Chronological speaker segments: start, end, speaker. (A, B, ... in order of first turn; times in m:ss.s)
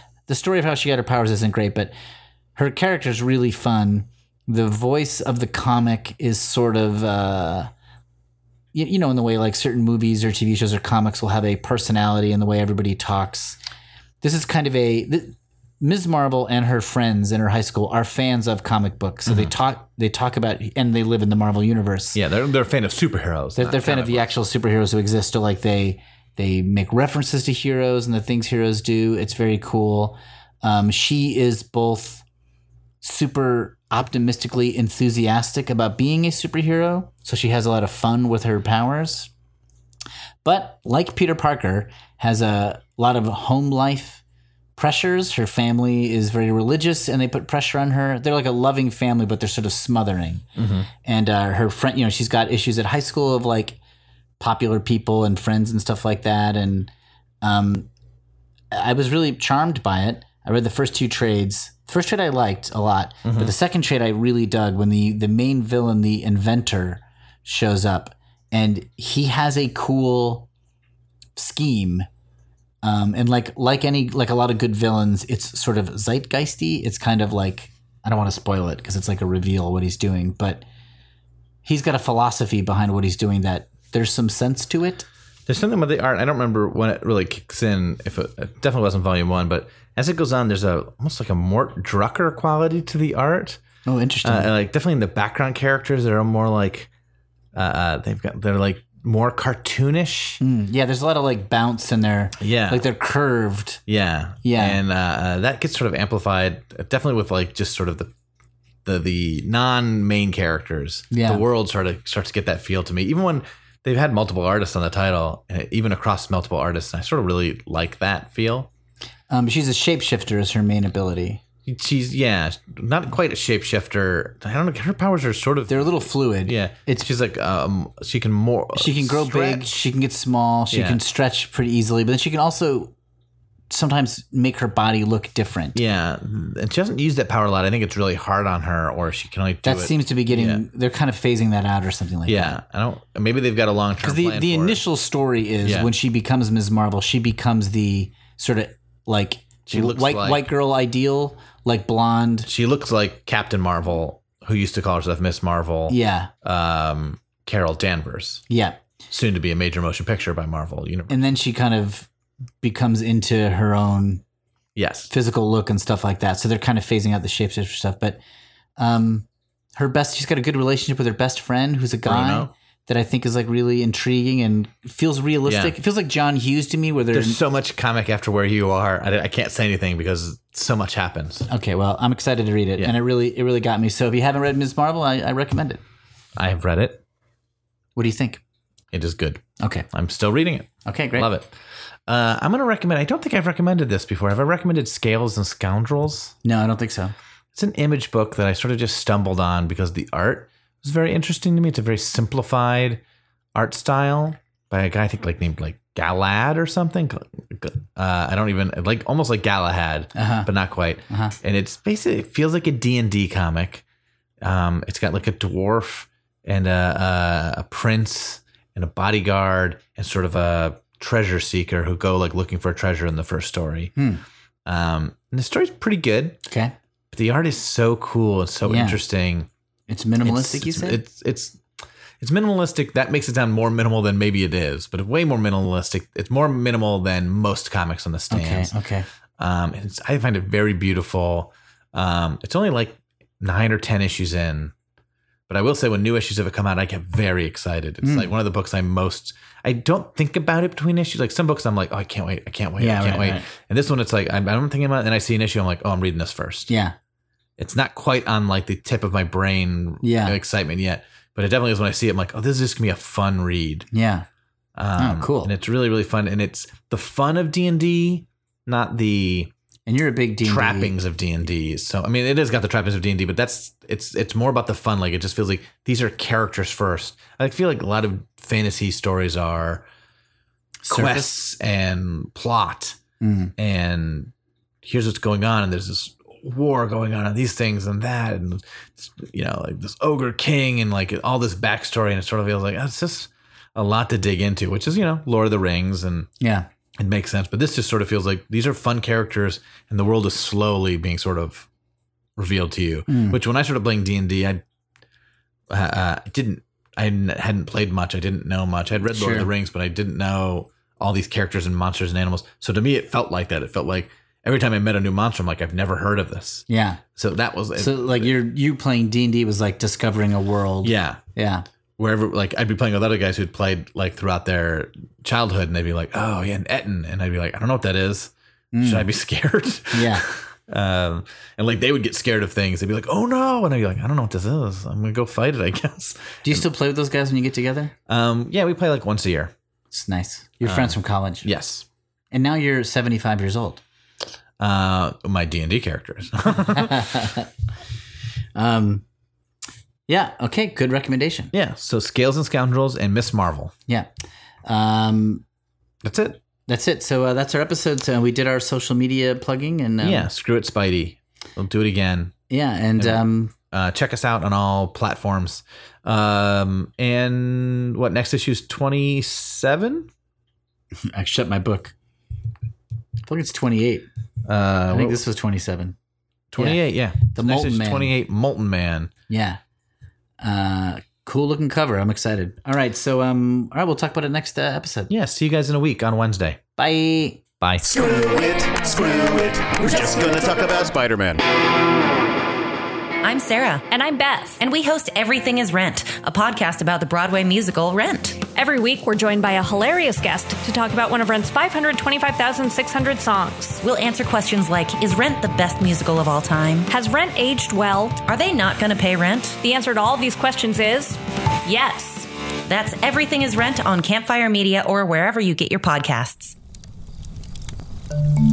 0:00.3-0:01.9 A
0:02.6-0:07.7 A
0:08.7-0:13.6 A
0:14.2-0:22.2 A
0:22.1-0:24.3 B
0:23.6-0:32.2 A
0:33.0-0:39.3 A
0:40.4-0:44.2 A
0:44.8-0:50.4 A
0:50.6-0:50.9 B
0:51.0-0:53.8 A
0:54.4-0:56.9 A
0:57.4-0:57.9 A
0:58.7-1:10.5 A
1:03.2-1:03.5 B
1:11.4-1:12.1 A
1:12.8-1:20.6 A
1:21.6-1:25.0 A
1:25.5-1:33.6 B
1:33.8-1:34.5 A
1:34.2-1:36.9 B
1:37.5-1:40.4 B
1:40.4-1:43.8 A
1:42.4-1:42.8 B
1:43.9-1:48.1 B
1:44.4-1:44.8 A
1:48.8-1:58.7 B
1:51.1-1:51.4 A
1:59.3-2:01.4 A
2:01.6-2:09.7 B
2:05.7-2:07.0 A
2:08.7-2:12.9 A
2:10.7-2:11.0 B
2:13.7-2:15.8 A
2:15.7-2:20.6 B
2:19.6-2:22.6 A
2:22.3-2:24.8 B
2:24.0-2:32.5 A
2:25.6-2:25.9 B
2:29.7-2:30.4 B
2:32.4-2:38.4 B
2:35.9-2:36.3 A
2:38.5-2:38.8 A
2:39.1-2:41.2 B
2:41.1-2:42.1 A
2:42.6-2:44.2 A
2:44.8-2:45.1 B
2:45.1-2:48.2 A
2:48.8-2:57.4 A
2:52.0-2:52.5 B
2:55.4-2:55.7 B
2:57.1-3:01.5 B
3:01.5-3:05.8 A
3:06.4-3:07.0 B
3:08.0-3:08.4 A
3:08.9-3:11.5 B
3:09.6-3:09.9 A
3:10.8-3:11.3 A
3:12.1-3:16.3 B
3:16.4-3:17.1 A
3:17.5-3:23.0 B
3:23.5-3:33.8 B
3:30.1-3:30.5 A
3:31.1-3:31.3 A
3:34.4-3:43.9 B
3:44.0-3:44.2 A
3:44.6-3:46.4 B
3:46.5-3:46.7 A
3:47.1-3:49.5 B
3:48.6-3:49.0 A
3:49.9-3:51.0 A
3:50.2-3:51.6 B
3:52.2-3:58.7 B
3:58.3-3:59.1 A
3:59.4-4:04.7 B
4:05.5-4:16.7 B
4:08.0-4:08.3 A
4:12.8-4:13.4 A
4:16.7-4:16.9 A
4:17.6-4:23.9 B
4:20.0-4:20.4 A
4:23.9-4:24.2 A
4:24.8-4:29.5 B
4:25.0-4:25.5 A
4:29.8-4:30.9 A
4:30.4-4:39.8 B
4:40.8-4:41.4 A
4:40.9-4:43.0 B
4:43.2-4:43.5 A
4:43.6-4:44.3 B
4:44.8-4:56.3 B
4:56.4-4:56.7 A
4:57.0-5:01.7 B
5:02.4-5:04.6 B
5:03.1-5:03.4 A
5:05.7-5:16.6 B
5:09.1-5:09.5 A
5:16.7-5:17.0 A
5:17.2-5:18.3 B
5:17.8-5:21.6 A
5:20.8-5:21.2 B
5:22.0-5:36.6 B
5:28.7-5:29.1 A
5:29.9-5:30.2 A
5:36.4-5:37.9 A
5:38.1-5:39.5 B
5:39.9-5:41.5 A
5:40.6-5:41.8 B
5:42.3-5:43.8 A
5:44.6-5:47.1 B
5:46.7-5:47.5 A
5:48.5-5:49.0 A
5:50.1-5:51.5 A
5:51.5-5:53.7 B
5:54.6-5:55.4 A
5:56.0-5:56.4 B
5:56.7-6:00.3 A
6:00.0-6:02.3 B
6:02.5-6:03.5 A
6:03.0-6:10.1 B
6:11.0-6:11.9 A
6:13.2-6:14.1 A
6:14.4-6:15.2 B
6:14.9-6:15.9 A
6:16.5-6:19.1 B
6:16.6-6:18.1 A
6:19.3-6:19.6 A
6:20.4-6:25.1 A
6:25.1-6:26.6 B
6:26.8-6:27.4 A
6:27.6-6:27.9 B
6:27.8-6:31.4 C
6:33.2-6:33.8 D
6:33.9-6:34.6 E
6:34.6-6:38.4 D
6:38.5-6:43.8 E
6:43.8-6:46.9 D
6:46.9-6:48.2 E
6:48.2-6:49.6 D
6:49.6-6:52.3 E
6:52.6-6:56.6 D